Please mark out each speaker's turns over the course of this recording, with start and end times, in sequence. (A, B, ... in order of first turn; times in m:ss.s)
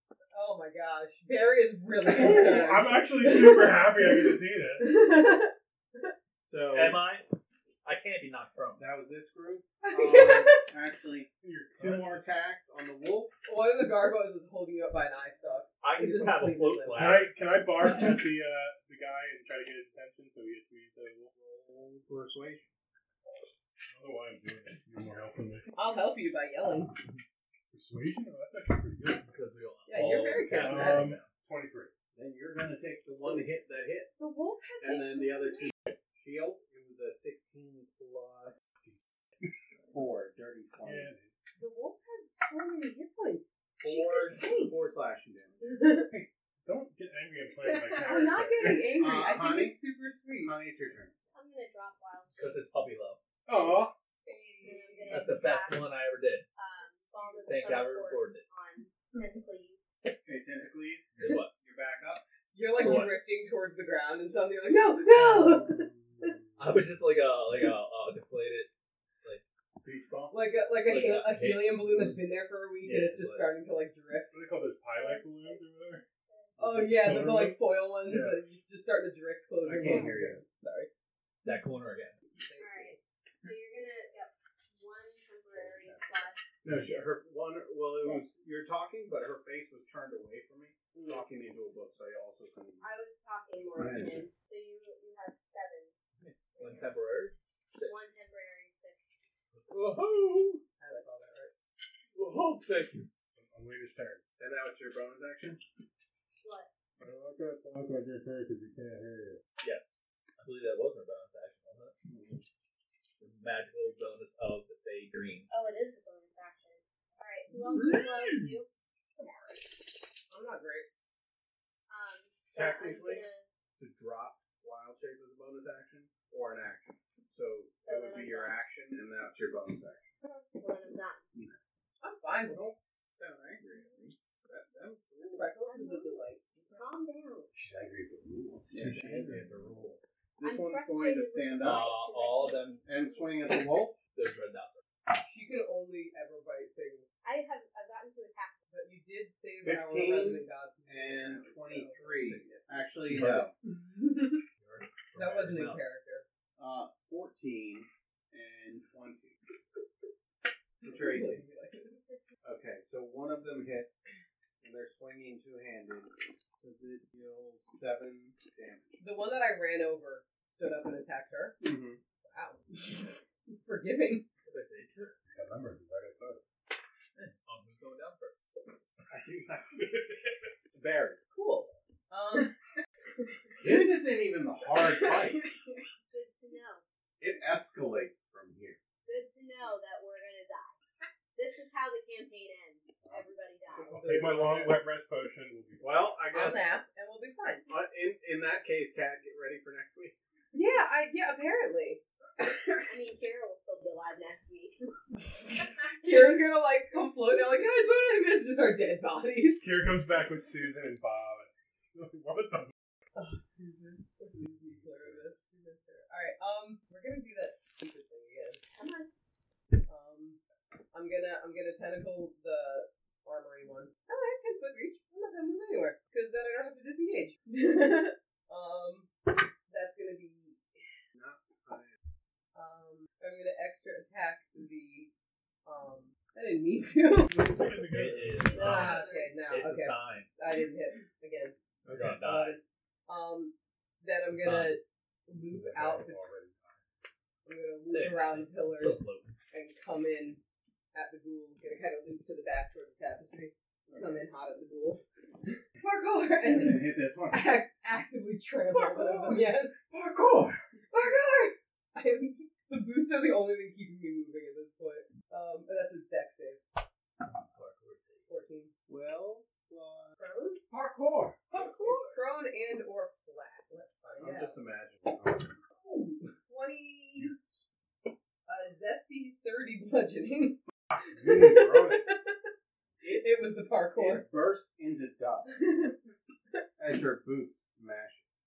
0:00.3-0:06.1 A
0:02.1-0:05.0 B
0:06.5-0:07.0 C
0:06.7-0:07.3 D
0:07.8-0:08.9 D
0:08.8-0:13.3 C
0:09.8-0:10.6 A
0:11.4-0:12.3 B
0:13.4-0:17.2 A
0:15.8-0:17.3 D
0:16.9-0:21.4 B
0:21.4-0:22.7 C
0:23.2-0:25.7 B
0:25.7-0:27.0 A
0:27.7-0:29.3 B
0:29.1-0:31.3 D
0:29.9-0:31.1 A
0:30.5-0:31.9 B
0:32.1-0:34.2 C
0:34.2-0:35.7 A
0:34.8-0:38.6 C
0:38.8-0:39.5 B
0:39.9-0:41.1 C
0:40.8-0:41.3 B
0:41.6-0:44.8 A
0:43.8-0:45.8 C
0:45.6-0:46.1 A
0:46.1-0:49.0 B
0:47.6-0:50.5 A
0:49.0-0:49.8 C
0:50.4-0:51.1 C
0:51.3-0:52.6 E
0:52.3-0:53.2 D
0:53.5-0:53.9 B
0:54.2-0:55.4 A
0:54.6-0:56.0 E
0:55.1-0:56.4 D
0:56.5-0:59.8 E
0:57.2-0:57.5 A
0:57.5-0:58.4 D
1:00.2-1:02.2 C
1:01.1-1:01.5 D
1:02.5-1:06.3 A
1:02.7-1:03.2 D
1:06.6-1:08.7 D
1:09.8-1:10.3 C
1:10.3-1:14.4 A
1:10.8-1:12.3 D
1:12.8-1:13.5 D
1:14.3-1:16.0 B
1:14.9-1:16.6 E
1:16.6-1:18.4 B
1:16.6-1:20.9 A
1:19.6-1:20.4 C
1:21.4-1:22.2 D
1:22.3-1:23.0 A
1:22.6-1:26.6 E
1:25.6-1:25.9 B
1:26.6-1:32.9 C
1:26.7-1:27.0 B
1:30.9-1:31.2 A
1:32.8-1:35.9 E
1:33.8-1:34.3 C
1:36.2-1:38.0 D
1:36.6-1:36.9 E
1:37.8-1:39.0 E
1:39.5-1:40.6 D
1:40.8-1:41.5 A
1:42.1-1:43.1 D
1:43.4-1:44.2 B
1:44.4-1:45.6 C
1:46.4-1:46.7 E
1:47.0-1:49.4 B
1:49.6-1:49.8 D
1:50.4-1:51.9 D
1:52.0-1:52.4 C
1:53.2-1:55.5 D
1:55.5-1:59.6 E
1:57.6-1:58.5 D
2:00.3-2:00.9 A
2:01.9-2:03.5 E
2:02.5-2:03.2 C
2:03.8-2:10.1 C
2:07.8-2:08.6 E
2:10.5-2:11.2 E
2:12.0-2:12.6 A
2:12.5-2:15.5 C
2:15.2-2:16.4 A
2:15.6-2:17.5 E
2:17.5-2:19.4 B
2:18.7-2:19.9 C
2:18.8-2:20.0 D
2:20.4-2:21.9 C
2:20.4-2:23.5 E
2:21.6-2:22.8 D
2:22.8-2:24.0 C
2:24.1-2:24.8 D
2:25.2-2:27.0 A
2:27.2-2:28.6 E
2:28.7-2:32.7 A
2:29.6-2:33.5 C
2:33.1-2:33.5 D
2:33.6-2:34.4 A
2:34.6-2:35.8 D
2:35.1-2:36.2 A
2:36.6-2:39.4 C
2:40.8-2:41.4 C
2:40.8-2:42.0 A
2:42.4-2:44.0 C
2:44.6-2:49.0 C
2:49.0-2:51.6 A
2:51.6-2:52.0 C
2:52.2-2:54.2 A
2:54.4-2:55.2 D
2:55.3-2:56.4 B
2:57.2-2:58.4 D
2:59.1-2:59.9 C
2:59.8-3:00.5 B
3:00.7-3:01.2 C
3:01.3-3:02.5 A
3:03.6-3:05.5 C
3:04.8-3:06.8 E
3:07.2-3:09.0 C
3:09.0-3:10.7 E
3:11.3-3:14.0 E
3:13.0-3:13.3 B
3:13.7-3:14.8 A
3:13.8-3:16.1 B
3:15.8-3:16.6 C
3:16.3-3:17.6 A
3:17.7-3:20.2 C
3:20.5-3:22.7 A
3:22.9-3:25.0 E
3:26.0-3:29.6 A
3:29.6-3:32.7 B
3:33.1-3:38.7 A
3:34.3-3:35.3 B
3:38.7-3:39.1 E
3:39.8-3:40.4 A
3:40.9-3:50.9 A
3:51.1-3:51.9 C
3:52.5-3:55.1 A
3:55.6-3:57.5 A
3:57.2-3:58.8 B
3:57.8-4:00.3 D
3:58.4-3:59.4 E
3:58.6-4:01.5 A
4:01.8-4:02.2 C
4:01.9-4:02.6 D
4:02.2-4:06.2 A
4:04.4-4:04.7 D
4:05.4-4:06.8 B
4:07.4-4:10.4 A
4:07.9-4:09.4 D
4:10.9-4:19.8 A
4:13.9-4:14.2 C
4:16.4-4:17.5 C
4:18.7-4:20.6 C
4:20.9-4:26.6 A
4:27.2-4:28.3 D
4:28.3-4:28.7 A
4:28.9-4:30.2 C
4:30.2-4:30.6 A
4:30.7-4:32.1 C
4:31.8-4:34.6 A
4:34.2-4:35.6 C
4:35.8-4:37.3 A
4:37.2-4:37.6 B
4:38.5-4:42.5 A
4:41.1-4:42.0 B
4:43.0-4:43.3 C
4:43.0-4:44.2 A
4:43.9-4:45.5 C
4:45.5-4:46.0 A
4:46.8-4:48.2 C